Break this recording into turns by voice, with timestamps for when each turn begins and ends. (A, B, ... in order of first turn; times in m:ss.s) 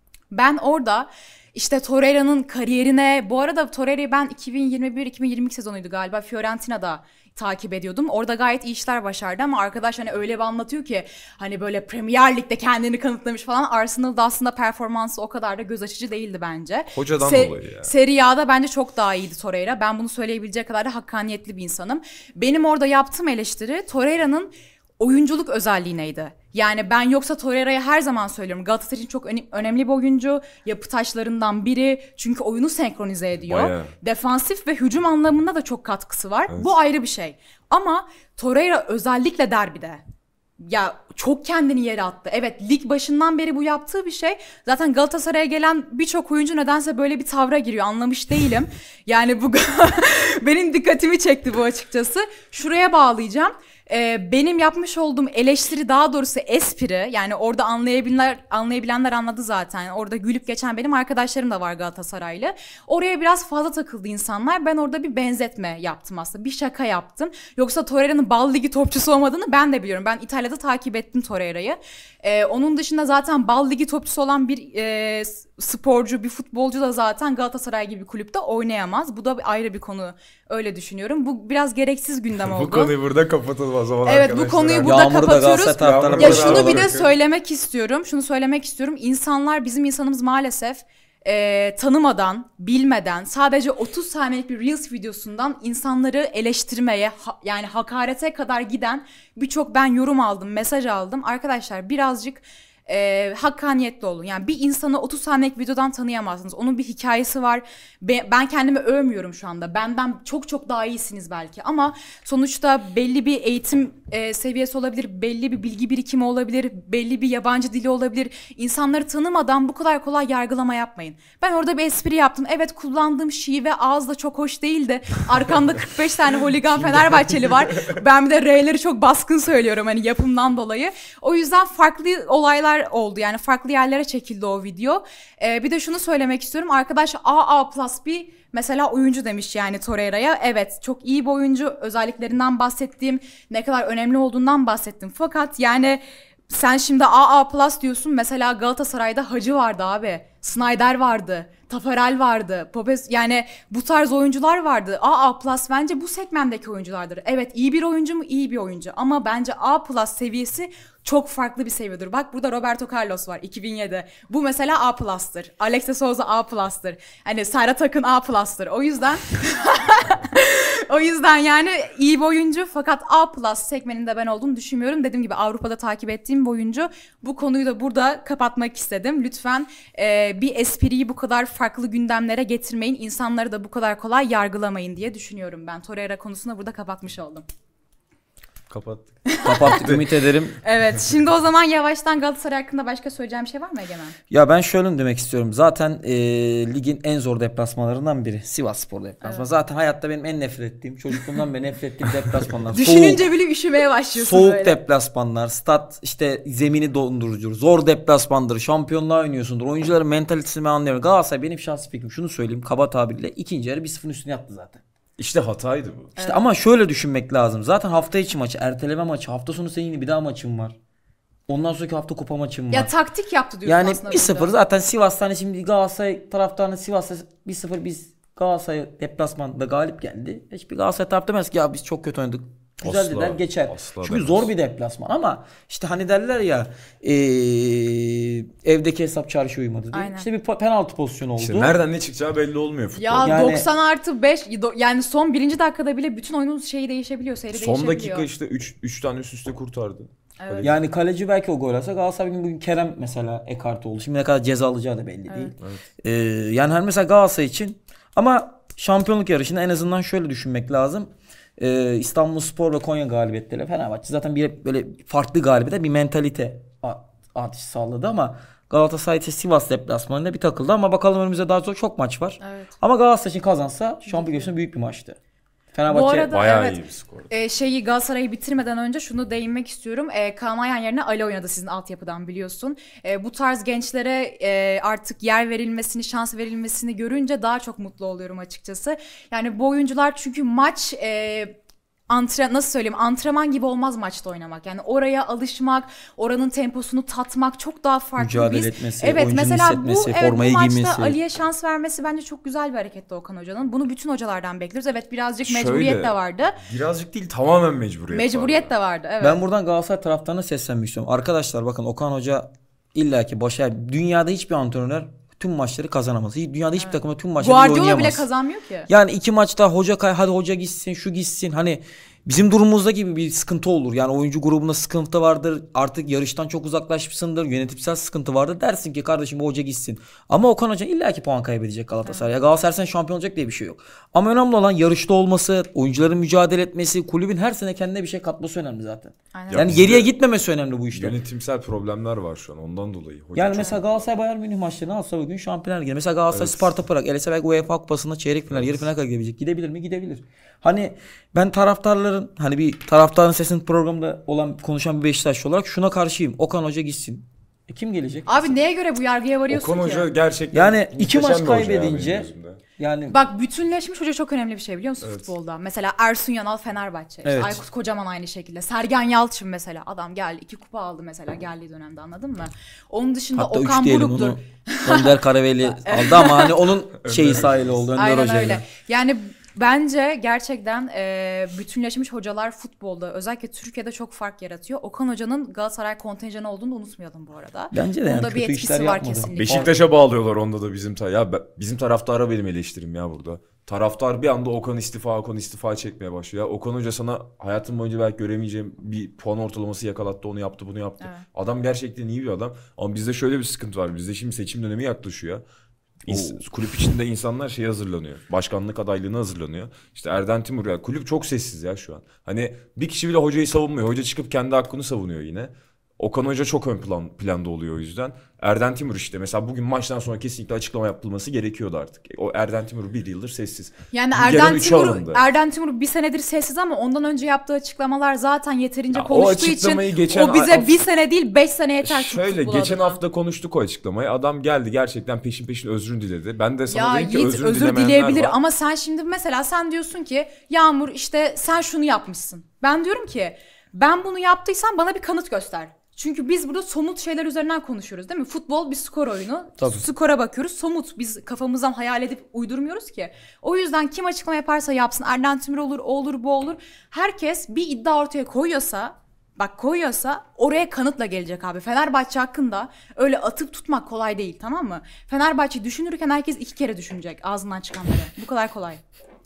0:00.3-0:40.0 A
0:16.9-0:17.9 B
0:33.4-0:33.9 B
0:36.5-0:36.7 B
0:40.6-1:22.9 A
1:22.4-1:25.0 B
1:24.0-3:07.4 A
1:24.8-1:26.9 C
1:25.8-1:27.1 B
2:06.8-2:08.0 B
3:08.7-3:10.1 B
3:09.3-3:09.8 A
3:09.4-3:10.6 C
3:10.6-3:14.2 A
3:14.3-3:23.2 C
3:19.2-3:19.5 A
3:22.7-3:24.8 A
3:24.1-3:34.8 C
3:35.2-3:36.1 B
3:36.2-3:40.8 C
3:41.5-3:42.9 C
3:42.7-3:44.5 A
3:43.6-4:01.8 C
3:52.8-3:54.5 B
3:59.9-4:00.3 A
4:01.4-4:03.4 B
4:03.0-4:08.3 A
4:03.2-4:03.7 C
4:07.5-4:10.7 B
4:10.4-4:10.7 A
4:10.6-4:35.2 C
4:15.3-4:15.5 A
4:32.4-4:32.7 A
4:34.1-4:34.5 A
4:35.7-4:36.3 C
4:35.9-4:51.6 A
4:36.3-4:37.3 B
4:52.1-5:06.6 A
4:58.2-5:01.2 C
5:05.4-5:08.7 B
5:08.1-5:09.4 A
5:09.2-5:18.3 C
5:16.8-5:18.9 A
5:18.9-5:41.2 C
5:32.0-5:32.3 A
5:39.3-5:39.7 A
5:39.5-5:40.1 B
5:40.9-5:43.8 B
5:43.4-5:58.6 C
5:46.3-5:46.8 B
5:48.5-5:48.9 B
5:58.3-6:00.1 A
5:59.5-6:02.6 B
6:00.5-6:03.2 C
6:03.1-6:15.1 A
6:05.0-6:05.3 B
6:07.2-6:07.6 C
6:13.4-6:18.7 C
6:15.7-6:16.6 A
6:17.0-6:17.9 B
6:18.0-6:29.7 A
6:27.7-6:29.7 C
6:29.4-6:45.4 B
6:41.0-6:41.3 A
6:46.0-7:05.2 B
6:46.1-6:46.4 C
7:03.9-7:13.0 A
7:08.9-7:10.8 B
7:11.8-7:18.4 B
7:16.7-7:48.8 A
7:29.6-7:29.8 C